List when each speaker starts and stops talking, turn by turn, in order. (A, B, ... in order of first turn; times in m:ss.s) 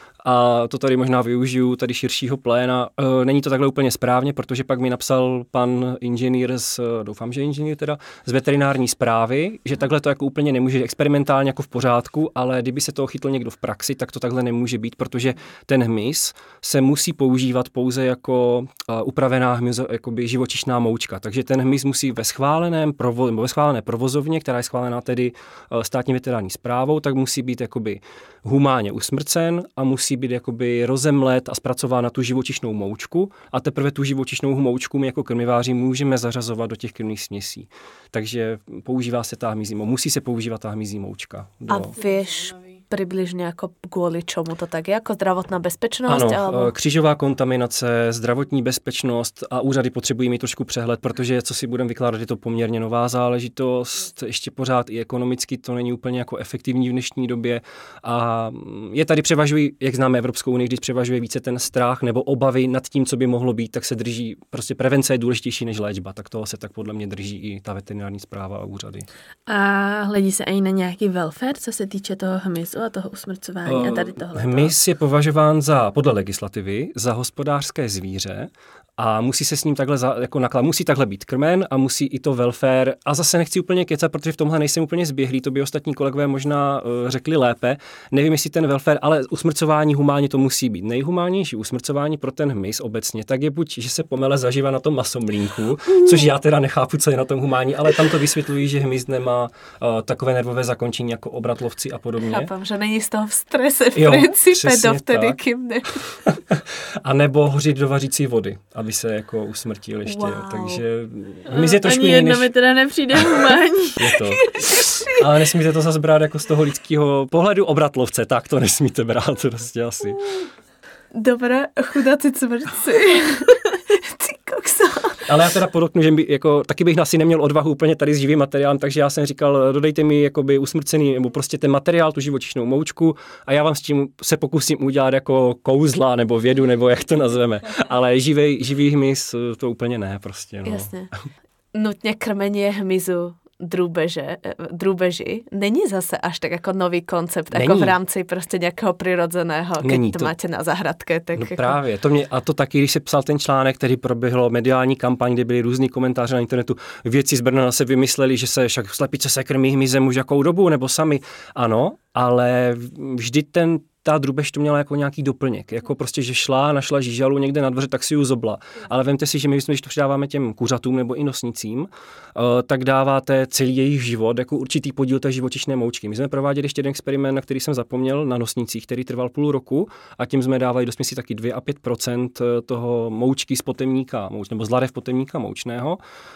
0:00.2-0:41.9 A
0:41.7-0:46.7 B
0:42.0-0:42.8 C
0:46.1-1:09.1 A
1:09.5-1:14.7 C
1:13.6-1:42.5 A
1:42.2-1:46.2 B
1:43.9-1:45.4 A
1:46.0-1:52.5 A
1:50.0-1:50.8 B
1:51.5-1:54.2 C
1:53.1-2:00.2 A
1:54.3-1:55.2 B
2:01.1-2:05.3 B
2:05.3-2:21.2 A
2:20.6-2:21.1 B
2:21.7-2:31.8 B
2:27.5-2:28.0 A
2:29.8-2:30.3 A
2:31.4-3:06.0 A